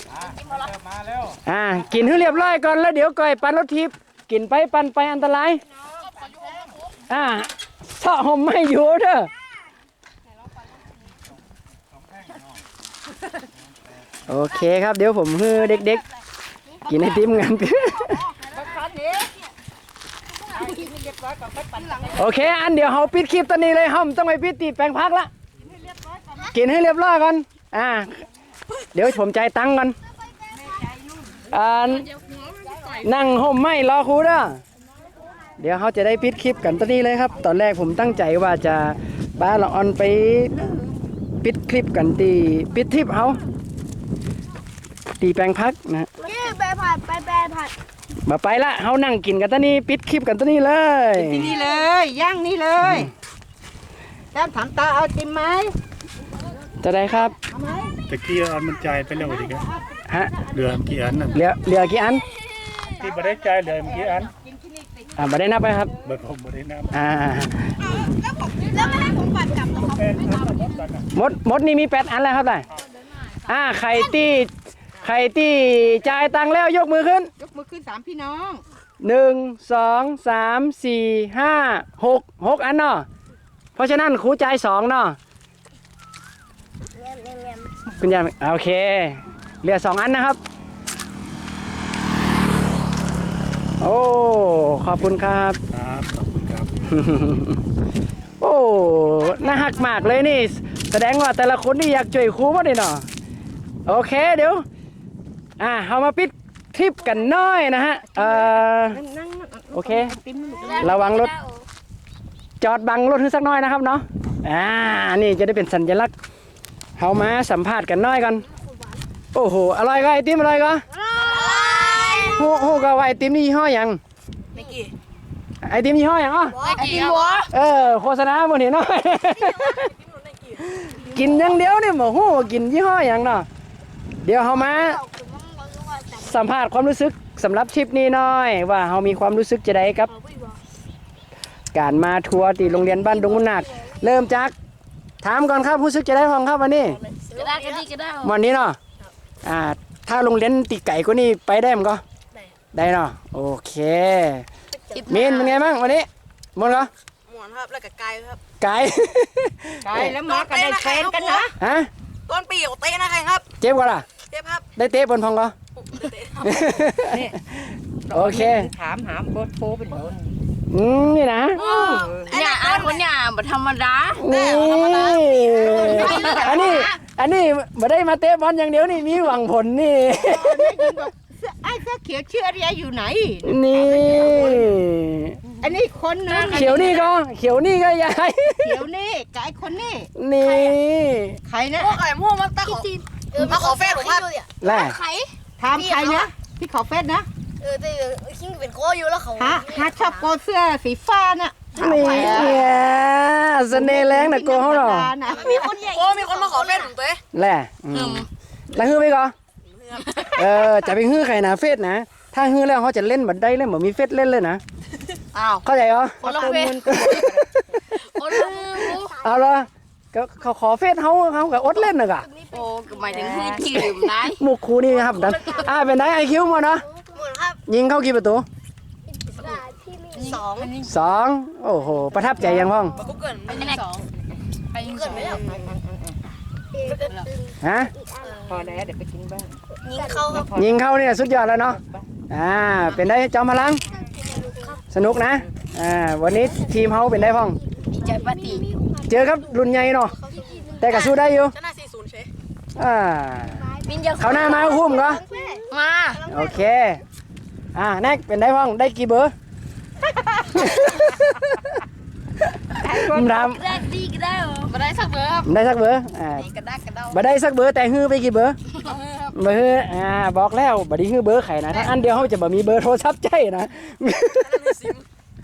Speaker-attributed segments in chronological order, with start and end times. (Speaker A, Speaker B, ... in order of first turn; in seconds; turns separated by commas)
Speaker A: 1.4-5.6, Speaker B: 5.8-6.7, Speaker A: 7.1-9.3, Speaker A: 14.3-16.0, Speaker A: 16.9-18.2, Speaker B: 18.3-19.4, Speaker B: 20.5-22.3, Speaker A: 22.1-25.3, Speaker B: 25.6-26.6, Speaker A: 26.5-28.2, Speaker A: 28.9-30.0, Speaker B: 30.5-31.4, Speaker A: 31.5-32.1, Speaker A: 33.0-34.6, Speaker A: 35.6-40.7, Speaker A: 41.4-43.4, Speaker A: 45.2-46.1, Speaker C: 46.2-47.7, Speaker A: 48.2-51.5, Speaker B: 51.1-53.1, Speaker B: 54.3-55.8, Speaker A: 56.8-57.4, Speaker B: 57.5-57.9, Speaker D: 58.1-59.6, Speaker B: 59.2-59.9, Speaker A: 60.1-60.3, Speaker D: 60.4-61.4, Speaker A: 61.3-62.2, Speaker D: 62.9-64.3, Speaker B: 63.9-65.1, Speaker A: 65.2-65.9, Speaker D: 66.0-67.0, Speaker A: 66.9-67.7, Speaker B: 67.9-70.3, Speaker C: 68.8-69.2, Speaker D: 69.7-71.0, Speaker A: 71.1-72.7, Speaker A: 73.4-77.3, Speaker B: 77.4-78.6, Speaker A: 79.0-83.0, Speaker A: 83.8-85.2, Speaker C: 87.0-87.7, Speaker A: 88.0-90.4, Speaker A: 93.8-95.6, Speaker D: 95.7-96.7, Speaker A: 96.9-97.6, Speaker A: 98.4-103.0, Speaker A: 103.8-104.6, Speaker A: 105.6-109.0, Speaker B: 108.1-111.0, Speaker A: 109.7-110.1, Speaker E: 110.6-111.5, Speaker C: 110.6-110.9, Speaker A: 110.8-111.3, Speaker A: 112.6-116.1, Speaker A: 117.0-118.4, Speaker C: 118.5-119.0, Speaker A: 119.3-120.8, Speaker C: 120.9-122.8, Speaker E: 121.2-121.8, Speaker A: 122.1-124.0, Speaker A: 125.6-126.6, Speaker C: 126.5-127.4, Speaker E: 126.6-127.5, Speaker A: 127.5-129.9, Speaker A: 130.7-133.5, Speaker A: 134.2-135.0, Speaker C: 134.5-136.3, Speaker A: 136.2-140.1, Speaker C: 140.1-140.6, Speaker A: 141.7-144.5, Speaker C: 142.9-143.9, Speaker A: 145.2-147.0, Speaker C: 147.0-147.8, Speaker E: 147.3-148.3, Speaker A: 148.2-148.8, Speaker A: 149.4-152.0, Speaker A: 152.7-154.4, Speaker C: 154.7-155.0, Speaker E: 154.9-155.6, Speaker A: 155.1-156.9, Speaker F: 157.3-157.6, Speaker A: 158.6-160.2, Speaker B: 159.8-161.5, Speaker A: 161.6-161.9, Speaker A: 163.6-164.1, Speaker F: 164.3-164.6, Speaker A: 164.8-165.5, Speaker A: 166.4-168.7, Speaker B: 167.1-167.4, Speaker B: 168.1-170.3, Speaker A: 170.7-171.6, Speaker E: 171.5-175.1, Speaker B: 171.6-172.3, Speaker F: 172.3-173.0, Speaker A: 174.2-181.0, Speaker F: 174.3-174.9, Speaker B: 175.6-176.9, Speaker E: 176.0-176.5, Speaker B: 180.2-184.7, Speaker A: 183.4-185.4, Speaker B: 185.5-186.9, Speaker E: 186.3-187.1, Speaker A: 186.4-188.8, Speaker B: 188.6-190.1, Speaker A: 190.2-191.4, Speaker C: 190.5-190.7, Speaker B: 191.4-192.0, Speaker F: 191.9-192.7, Speaker C: 192.6-196.3, Speaker F: 193.5-194.2, Speaker A: 194.6-195.0, Speaker B: 195.6-197.3, Speaker C: 197.6-200.3, Speaker B: 199.3-202.7, Speaker A: 201.8-205.1, Speaker E: 202.0-202.6, Speaker B: 203.7-206.1, Speaker C: 205.4-206.9, Speaker F: 205.4-207.1, Speaker A: 207.3-209.3, Speaker E: 207.9-208.3, Speaker F: 209.7-210.0, Speaker E: 209.9-210.5, Speaker A: 210.3-214.6, Speaker E: 215.3-215.6, Speaker A: 215.6-218.0, Speaker E: 216.2-217.0, Speaker B: 216.2-217.6, Speaker E: 217.9-219.1, Speaker C: 218.3-219.4, Speaker A: 219.0-222.3, Speaker C: 222.2-223.6, Speaker E: 222.5-224.4, Speaker B: 223.1-223.6, Speaker A: 223.6-226.8, Speaker C: 225.1-225.7, Speaker E: 225.1-225.7, Speaker C: 226.6-227.6, Speaker A: 227.7-228.4, Speaker C: 229.1-230.5, Speaker E: 230.1-230.8, Speaker B: 230.2-230.8, Speaker A: 230.8-233.0, Speaker C: 232.3-233.7, Speaker F: 233.0-233.6, Speaker E: 233.4-234.0, Speaker E: 234.7-235.5, Speaker C: 234.8-235.5, Speaker B: 235.1-236.2, Speaker C: 236.7-238.5, Speaker E: 236.9-237.2, Speaker A: 237.6-237.9, Speaker B: 238.4-239.6, Speaker C: 239.8-240.5, Speaker E: 239.8-240.2, Speaker B: 240.3-240.8, Speaker A: 240.5-241.8, Speaker A: 242.3-243.8, Speaker C: 243.9-244.8, Speaker A: 244.9-247.6, Speaker C: 246.8-249.4, Speaker E: 247.9-248.7, Speaker A: 249.1-250.1, Speaker C: 250.0-251.2, Speaker A: 250.8-251.5, Speaker A: 252.8-253.6, Speaker C: 253.4-256.7, Speaker E: 253.8-254.8, Speaker A: 254.2-255.2, Speaker E: 255.7-256.2, Speaker A: 256.3-257.0, Speaker A: 257.7-259.3, Speaker B: 260.1-260.6, Speaker A: 260.5-261.8, Speaker B: 262.7-263.5, Speaker A: 262.9-263.8, Speaker C: 263.7-264.7, Speaker E: 264.2-265.5, Speaker A: 265.4-266.5, Speaker E: 266.4-267.1, Speaker A: 267.1-268.6, Speaker A: 269.3-274.9